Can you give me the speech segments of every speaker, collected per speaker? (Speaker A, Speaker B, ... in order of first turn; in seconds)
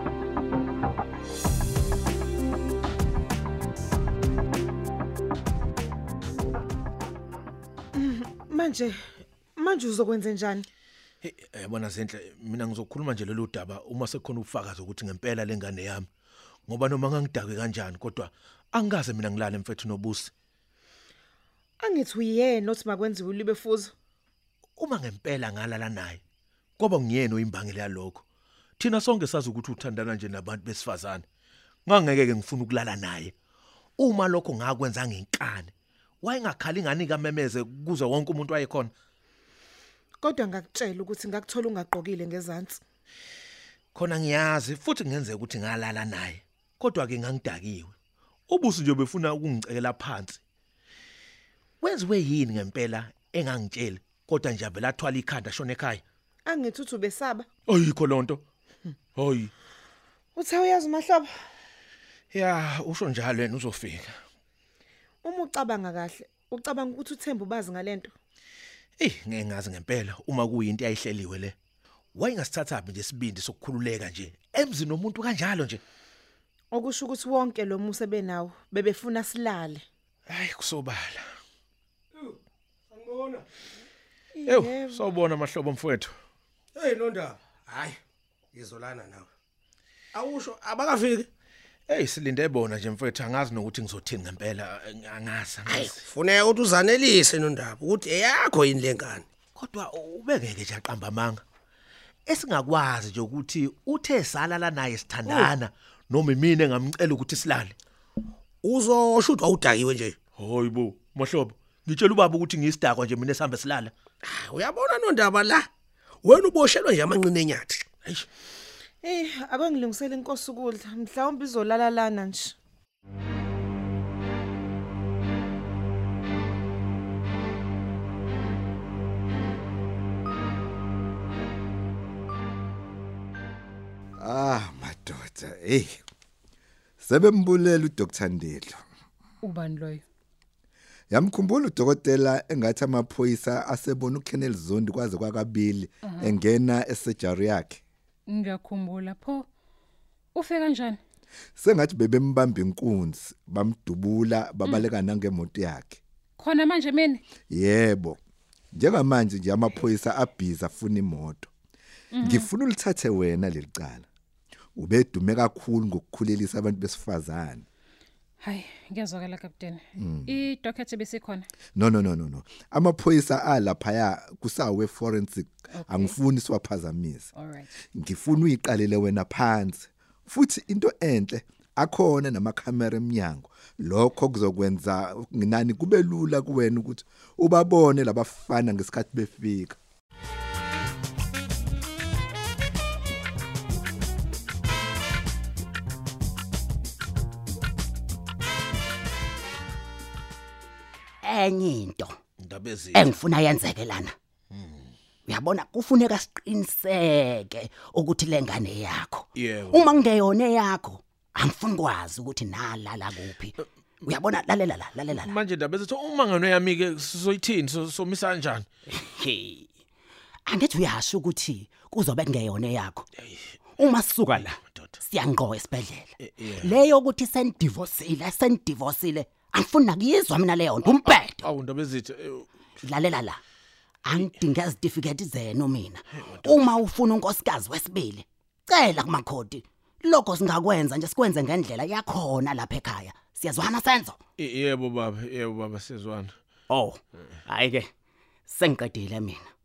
Speaker A: 7.9-10.7, 21.8-23.9, 40.2-42.8, 56.4-57.5, 60.3-61.5, 65.2-68.1, 76.7-79.9, 84.3-85.1, 119.0-122.5
Speaker B: 11.2-16.1, 16.7-20.3, 24.8-26.2, 26.8-28.2, 28.8-31.2, 31.9-33.3, 34.0-35.7, 36.2-38.9, 43.9-47.9, 48.5-50.4, 51.8-56.0, 57.7-58.4, 59.1-59.5, 62.3-64.2, 69.0-71.5, 72.1-75.8, 80.3-81.3, 84.5-86.1, 91.9-96.0, 99.5-101.4, 102.3-107.7, 110.4-113.9, 202.4-203.2, 204.5-204.9, 209.3-209.9, 215.2-218.7, 224.3-224.9, 226.2-226.8, 230.9-232.5, 236.1-236.7, 244.4-246.3
Speaker C: 82.9-83.4, 86.7-88.0, 88.5-89.3, 90.1-91.3, 95.7-99.2, 108.6-110.2, 114.2-115.7, 116.2-117.9
Speaker D: 134.2-136.0, 137.0-138.8, 141.1-147.8, 151.6-156.0, 157.5-158.2, 158.7-161.5, 162.2-164.1, 164.8-167.7, 170.0-170.4, 171.8-177.3, 177.9-189.8
Speaker E: 139.4-140.0, 146.0-146.3, 148.3-149.5, 150.3-151.0, 156.4-157.2, 162.1-162.5, 168.4-171.5, 175.7-176.2, 177.3-177.7
Speaker F: 201.2-202.2, 202.9-204.1, 205.3-215.3, 219.2-219.6, 220.5-223.1, 223.8-231.4, 232.8-233.4, 234.0-244.2, 246.7-247.9, 248.5-249.4